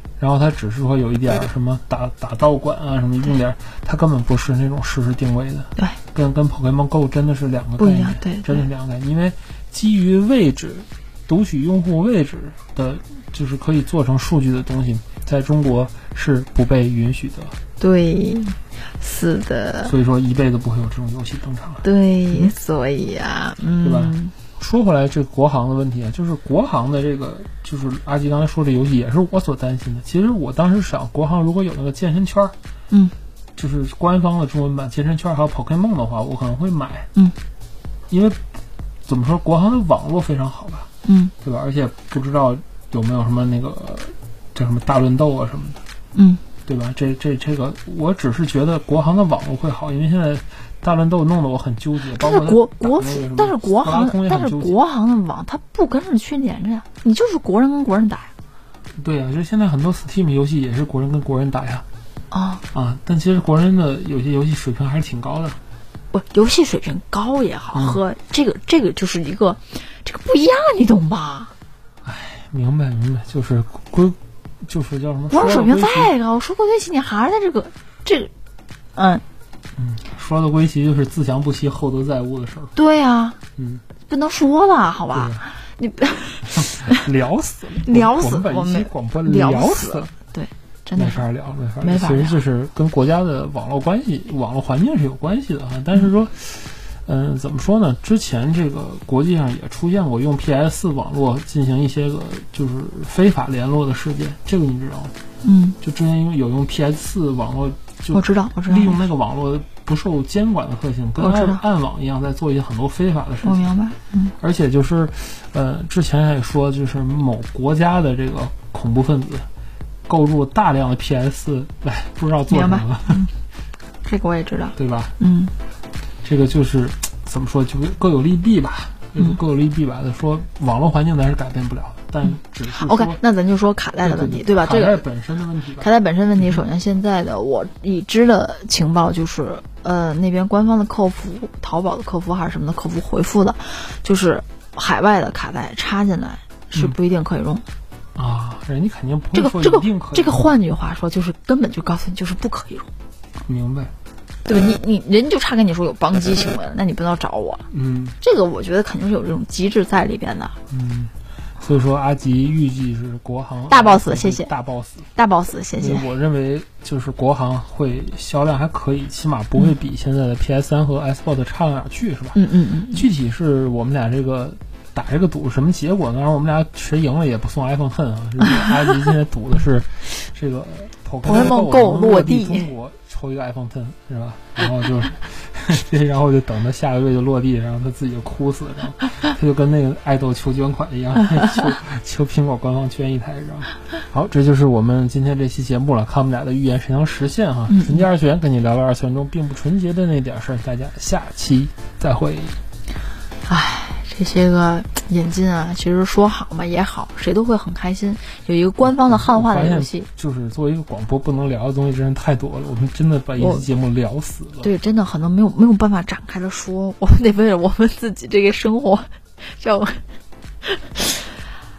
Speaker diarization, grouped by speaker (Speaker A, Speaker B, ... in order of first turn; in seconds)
Speaker A: 0.2-17.6, 19.8-22.5, 23.8-32.5, 33.5-37.1, 38.1-38.4, 39.0-40.9, 41.4-45.8, 46.6-54.8, 59.0-61.8, 62.7-65.6, 67.7-68.0, 72.0-76.1, 79.8-82.7, 83.6-83.8, 85.1-85.4, 86.5-90.1, 91.0-105.1, 105.8-113.7, 114.4-119.5, 120.1-123.3, 124.8-125.1, 126.2-133.2, 134.0-135.9, 148.2-150.5, 153.4-153.9, 157.7-158.2, 160.7-165.1, 165.8-202.6, 208.8-214.7
Speaker B: 7.8-8.7, 17.8-19.9, 21.8-24.3, 41.0-41.3, 46.1-46.4, 52.1-58.3, 62.3-62.6, 66.1-71.5, 75.3-78.3, 78.9-79.2, 82.7-83.4, 84.0-87.0, 87.8-91.3, 91.8-92.4, 105.4-105.8, 108.1-109.0, 111.2-111.6, 113.4-114.3, 122.5-123.3, 124.0-125.5, 132.7-135.0, 135.8-147.7, 149.3-152.9, 154.4-157.6, 158.2-160.6, 163.7-164.5, 165.1-166.1, 172.3-173.1, 178.4-178.7, 181.2-182.7, 197.7-198.0, 203.5-210.1, 213.4-213.7, 214.6-220.0, 220.6-221.3